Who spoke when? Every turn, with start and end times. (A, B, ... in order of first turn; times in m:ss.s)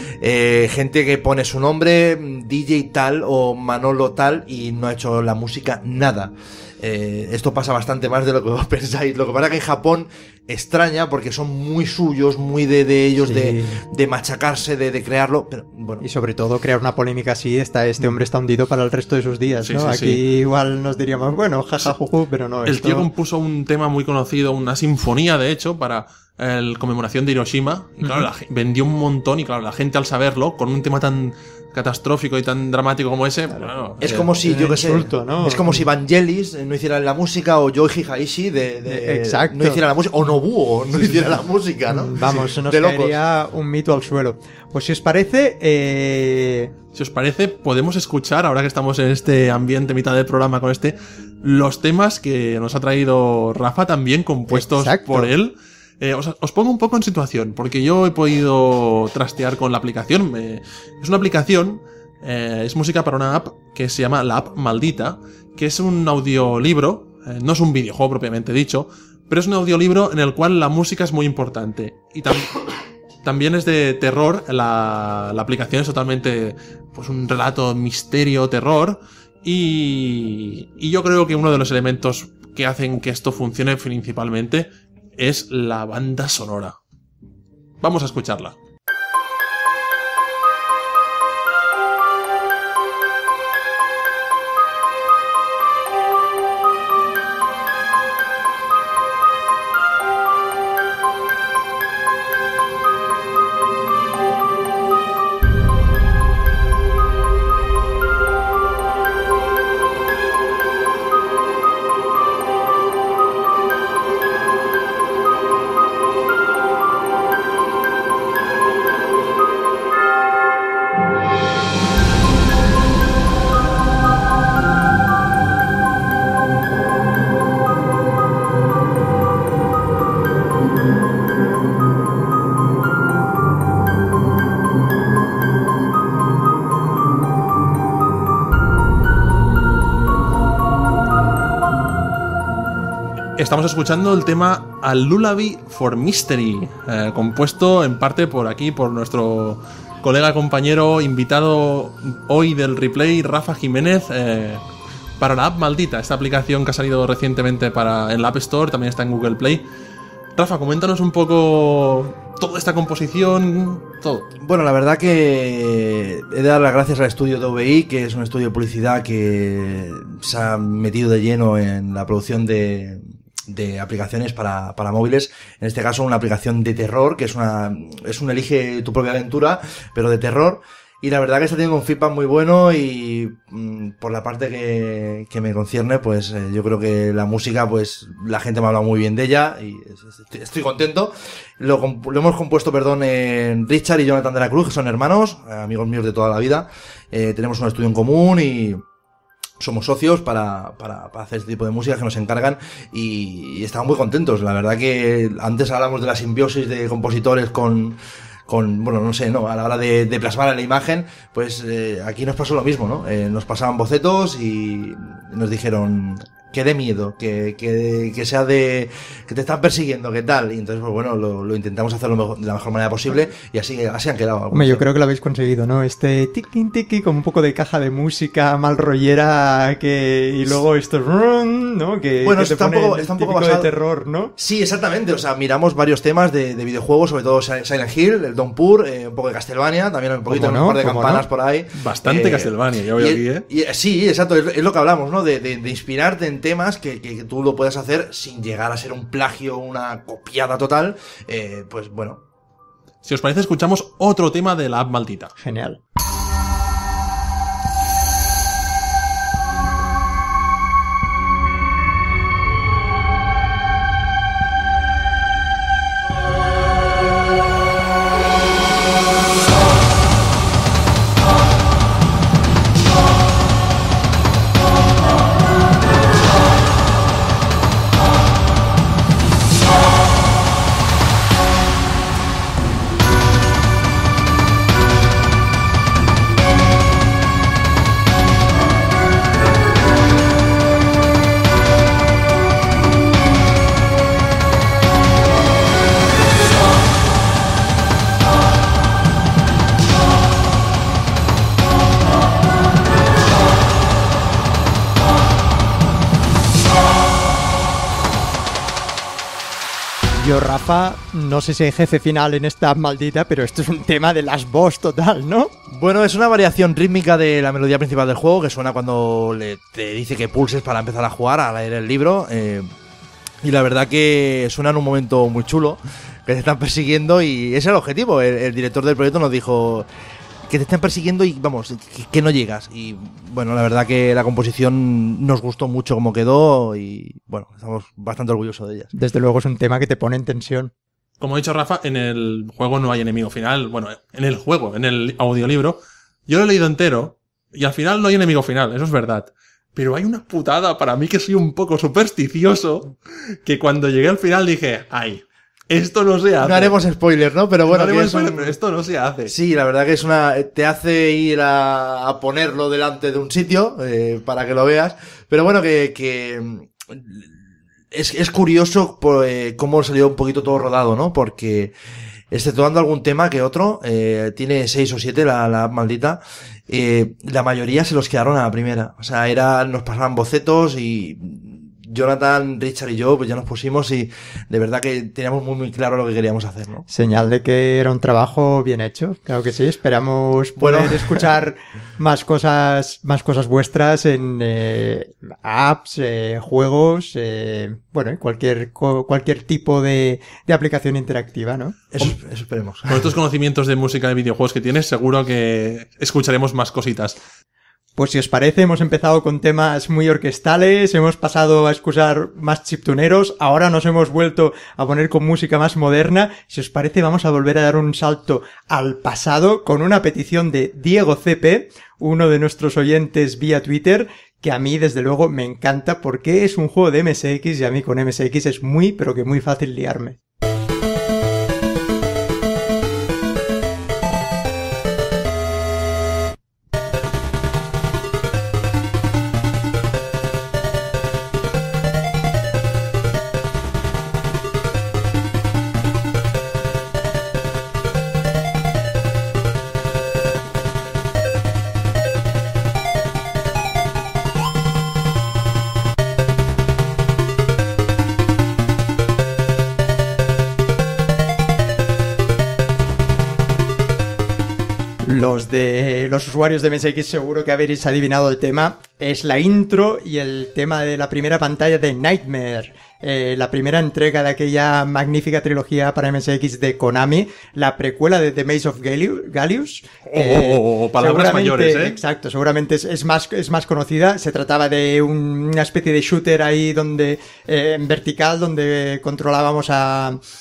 0:00.2-0:16.0 A
0:13.2-0:13.8 B
0:16.0-0:23.1 B
0:19.6-0:20.2 C
0:22.6-0:34.3 C
0:28.0-0:28.3 B
0:34.0-0:43.2 A
0:34.4-0:35.8 B
0:38.8-0:39.8 B
0:41.9-0:46.7 B
0:46.9-1:12.6 C
0:54.5-0:55.3 B
1:13.2-1:26.8 C
1:27.8-1:28.6 C
2:23.4-2:34.6 C
2:35.2-2:39.6 C
2:40.4-2:44.3 C
2:44.4-3:18.8 A
3:19.6-3:44.8 A
3:44.5-3:54.3 B
3:52.2-3:53.7 A
3:54.4-4:12.2 A
4:00.3-4:01.2 B
4:01.8-4:03.4 C
4:13.0-4:15.3 C
4:15.4-4:15.8 B
5:10.2-5:15.5 B
5:15.7-5:22.7 A
5:23.4-5:29.9 A
5:30.5-5:38.9 A
5:38.9-5:40.7 B
5:41.2-5:56.7 C
5:56.4-5:58.6 A
5:57.6-5:59.3 C
5:59.3-6:07.3 A
6:07.9-6:11.7 A
6:12.3-6:26.8 A
6:26.9-6:41.8 B
6:30.6-6:31.3 A
6:41.9-6:43.1 A
6:42.9-6:47.2 C
6:48.0-7:10.2 B
7:45.0-8:10.2 B
8:00.1-8:02.0 C